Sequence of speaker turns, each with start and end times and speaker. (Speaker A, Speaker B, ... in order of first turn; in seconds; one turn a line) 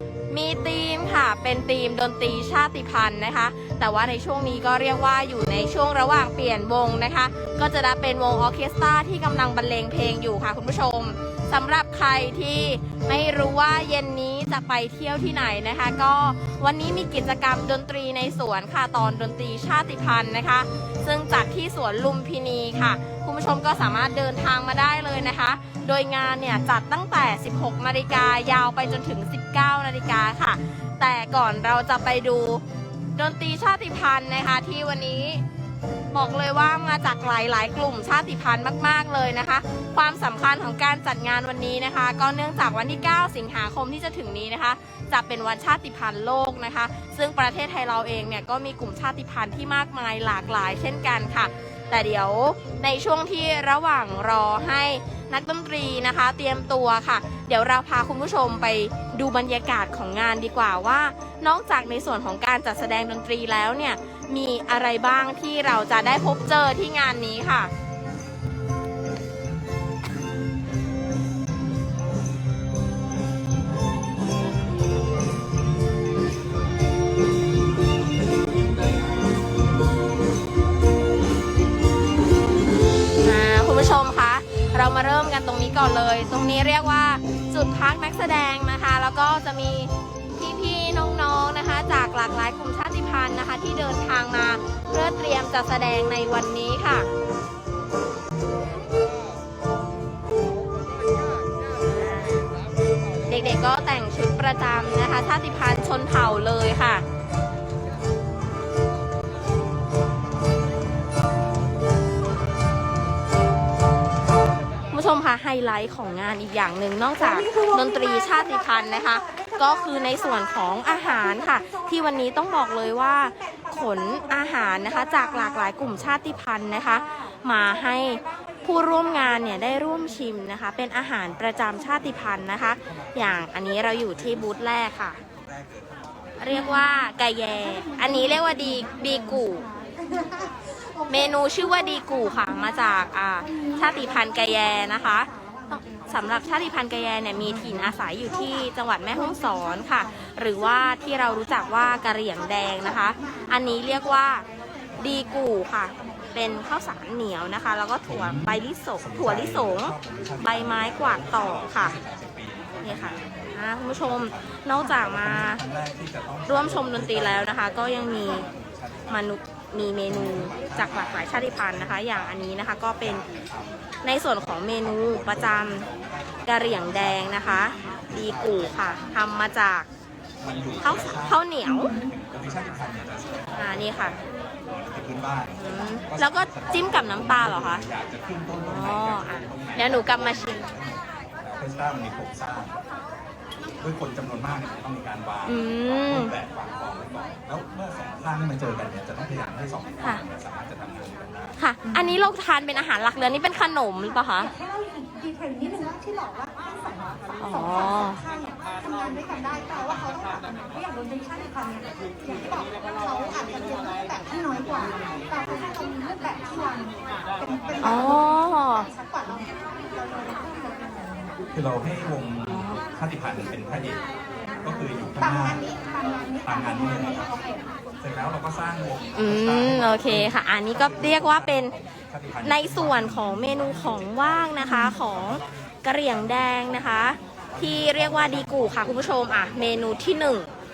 Speaker A: 0.3-32.6
Speaker A: 33.1-35.4
Speaker A: 36.1-67.7
Speaker A: 83.2-97.1
Speaker A: 101.8-102.5
Speaker A: 103.2-107.0
Speaker A: 114.9-135.2
Speaker B: 125.8-126.3
Speaker B: 132.1-136.5
Speaker A: 136.4-139.7
Speaker C: 140.2-140.5
Speaker A: 141.1-154.4
Speaker A: 155.0-161.9
Speaker B: 158.1-169.2
Speaker A: 162.8-165.6
Speaker A: 166.5-168.5
Speaker A: 169.1-173.3
Speaker B: 170.1-178.9
Speaker A: 174.0-175.8
Speaker A: 176.4-179.9
Speaker B: 180.4-181.4
Speaker A: 180.8-181.9
Speaker B: 182.0-184.1
Speaker A: 183.5-184.2
Speaker B: 184.6-192.8
Speaker A: 185.6-187.8
Speaker A: 188.6-190.7
Speaker B: 193.8-201.6
Speaker A: 195.5-196.3
Speaker A: 201.6-204.5
Speaker C: 204.6-207.3
Speaker A: 207.4-208.2
Speaker C: 208.1-217.8
Speaker A: 217.8-218.9
Speaker C: 218.9-221.1
Speaker B: 221.5-224.0
Speaker A: 222.5-222.8
Speaker B: 224.6-225.7
Speaker C: 225.5-226.5
Speaker B: 226.4-227.3
Speaker C: 227.3-227.6
Speaker B: 228.0-234.6
Speaker A: 229.1-231.7
Speaker A: 232.4-240.5
Speaker B: 235.1-235.5
Speaker B: 237.5-240.1